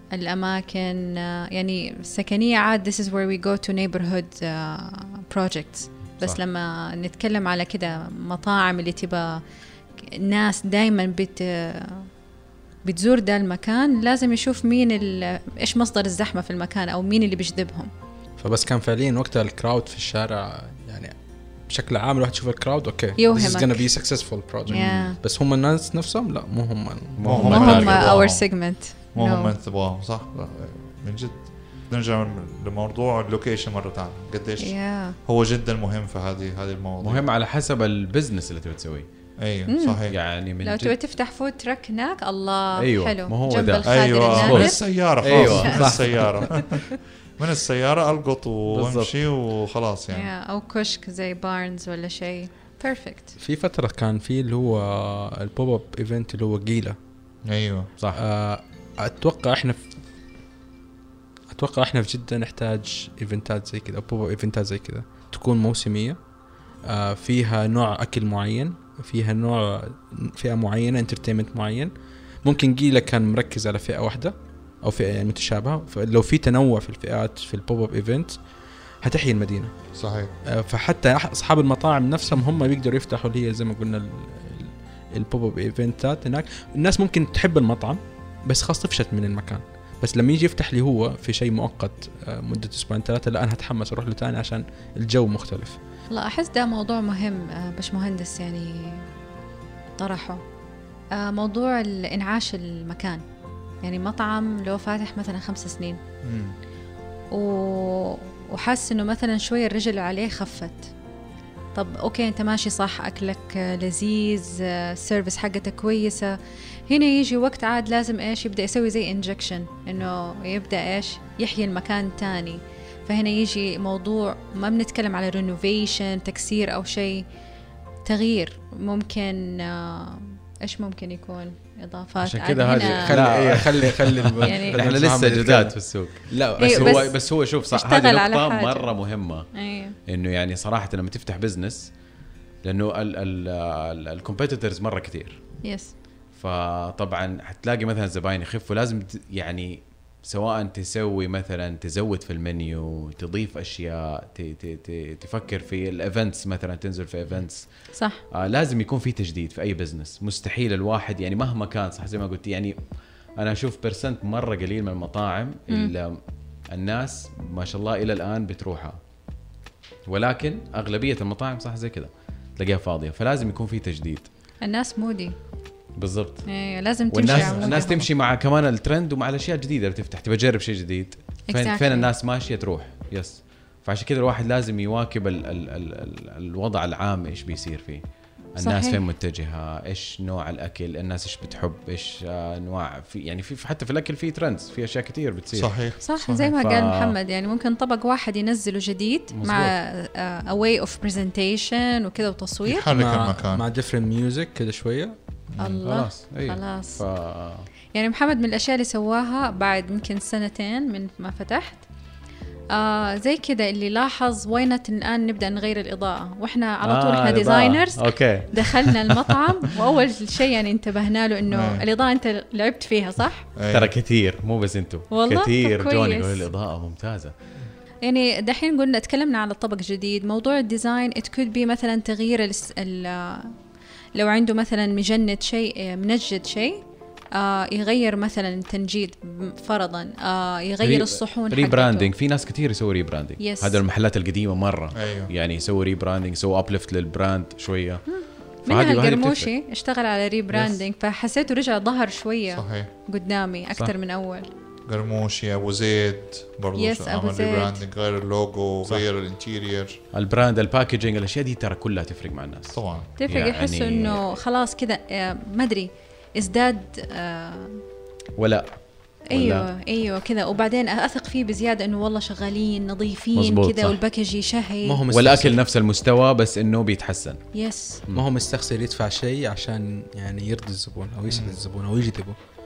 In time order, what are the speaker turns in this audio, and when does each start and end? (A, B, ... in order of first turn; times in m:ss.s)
0:00.1-0:09.4 A
0:10.2-0:12.1 A
0:12.8-0:17.9 A
0:18.4-0:21.1 B
0:21.7-0:27.8 B
0:23.2-0:23.9 A
0:24.7-0:25.2 A
0:27.2-0:28.2 C
0:27.2-0:28.4 D
0:27.5-0:29.5 A
0:29.1-0:37.3 D
0:34.6-0:35.2 A
0:37.0-0:39.0 C
0:39.4-0:40.1 D
0:39.7-0:40.0 A
0:40.1-0:40.9 C
0:40.6-0:44.8 A
0:42.8-0:45.9 C
0:43.8-0:46.9 D
0:45.3-0:46.1 B
0:45.4-0:45.9 A
0:47.4-0:50.3 D
0:48.7-0:49.1 C
0:50.1-0:53.3 A
0:53.4-0:57.0 B
0:57.4-0:57.9 D
0:58.1-0:59.8 B
1:01.5-1:06.2 B
1:06.8-1:11.9 B
1:12.4-1:18.4 B
1:19.0-1:19.7 B
1:19.9-1:20.3 D
1:20.4-1:35.8 B
1:36.1-1:39.1 A
1:40.0-1:40.4 A
1:41.2-1:43.2 A
1:43.8-1:46.0 A
1:46.2-1:46.6 D
1:47.3-1:50.9 A
1:51.7-1:56.4 A
1:56.9-2:07.2 A
2:08.0-2:13.2 A
2:12.2-2:19.5 C
2:12.8-2:17.1 B
2:14.4-2:14.8 A
2:16.6-2:18.9 A
2:19.5-2:19.9 A
2:20.1-2:21.9 C
2:22.6-2:25.4 C
2:25.6-2:25.9 A
2:26.4-2:37.7 C
2:37.9-2:38.2 A
2:38.3-2:42.7 C
2:43.4-2:46.2 C
2:46.7-2:49.0 C
2:50.1-2:54.3 C
2:54.6-2:55.3 A
2:56.0-2:56.4 C
2:56.4-2:58.0 A
2:57.1-3:08.0 C
2:57.2-2:57.8 D
3:01.5-3:02.1 A
3:08.6-3:15.8 C
3:08.6-3:09.0 A
3:15.5-3:16.5 D
3:16.0-3:22.9 A
3:16.6-3:17.2 C
3:19.3-3:19.7 C
3:22.6-3:23.6 D
3:22.8-3:25.2 B
3:25.5-3:25.9 D
3:25.6-3:27.0 A
3:25.8-3:27.7 C
3:27.9-3:31.8 A
3:32.7-3:43.5 A
3:36.8-3:39.2 C
3:41.5-3:41.8 D
3:43.6-3:43.9 D
3:43.7-3:47.3 C
3:45.1-3:46.5 A
3:48.0-3:53.5 A
3:54.2-3:56.8 A
3:57.4-4:02.1 A
4:00.8-4:08.0 C
4:03.4-4:03.8 A
4:04.9-4:05.3 D
4:08.1-4:14.5 A
4:08.7-4:09.5 C
4:12.5-4:12.9 D
4:14.9-4:20.0 D
4:16.8-4:17.8 A
4:20.1-4:24.2 C
4:22.7-4:23.1 D
4:23.2-4:27.7 A
4:28.4-4:28.7 C
4:29.3-4:29.7 C
4:29.3-4:35.1 A
4:33.3-4:34.0 C
4:34.8-4:35.6 B
4:35.1-4:37.4 C
4:37.5-4:38.0 A
4:38.1-4:42.4 B
4:41.3-4:41.6 D